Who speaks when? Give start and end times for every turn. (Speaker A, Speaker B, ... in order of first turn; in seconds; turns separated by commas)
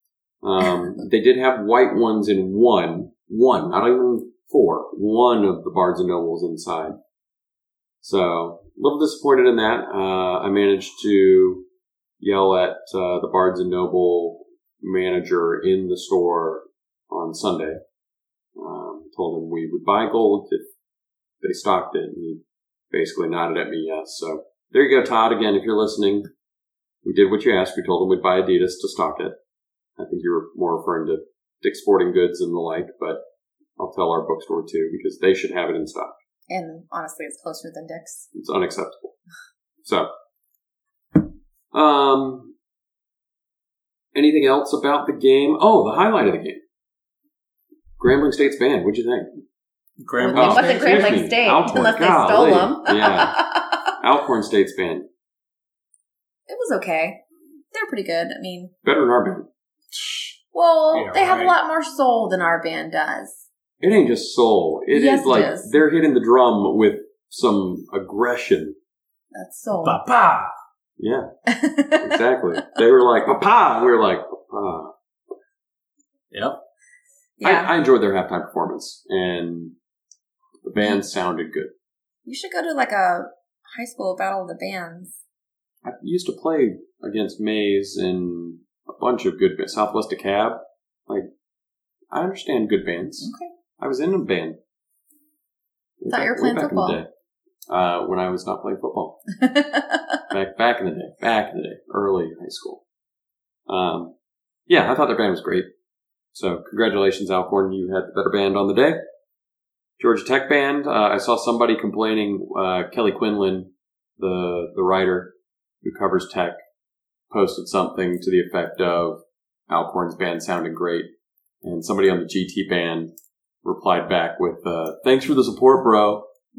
Speaker A: 0.4-7.0, Speaker A: 8.0-11.7, Speaker A: 12.2-17.8, Speaker A: 18.6-20.6, Speaker A: 21.4-26.3, Speaker A: 27.0-29.4, Speaker A: 30.0-33.2, Speaker A: 33.8-36.1, Speaker B: 36.5-38.3, Speaker A: 38.3-39.1, Speaker A: 39.8-40.1, Speaker A: 41.7-42.5, Speaker A: 44.1-46.6, Speaker A: 48.0-49.3, Speaker C: 50.0-51.2, Speaker B: 50.2-53.9, Speaker A: 50.3-53.4, Speaker A: 53.9-55.1, Speaker B: 56.5-58.7, Speaker A: 58.8-59.5, Speaker C: 59.9-60.3, Speaker B: 60.5-63.4, Speaker C: 60.9-61.5, Speaker A: 63.8-68.8, Speaker B: 64.9-65.7, Speaker B: 69.3-70.0, Speaker C: 69.8-70.5, Speaker A: 71.0-71.3, Speaker B: 71.5-72.2, Speaker A: 72.0-74.9, Speaker C: 76.3-76.6, Speaker B: 77.4-77.7, Speaker A: 77.4-79.7, Speaker A: 80.6-81.7, Speaker B: 82.2-85.1, Speaker A: 85.8-91.3, Speaker A: 92.1-94.6, Speaker B: 93.2-93.5, Speaker A: 96.0-97.1, Speaker B: 96.1-97.0, Speaker A: 97.7-99.2, Speaker B: 99.4-100.0, Speaker A: 100.3-102.8, Speaker A: 103.7-104.1, Speaker A: 104.7-105.7, Speaker A: 106.3-109.0, Speaker A: 110.0-116.6, Speaker A: 117.3-121.1, Speaker A: 121.6-123.1, Speaker A: 123.6-126.3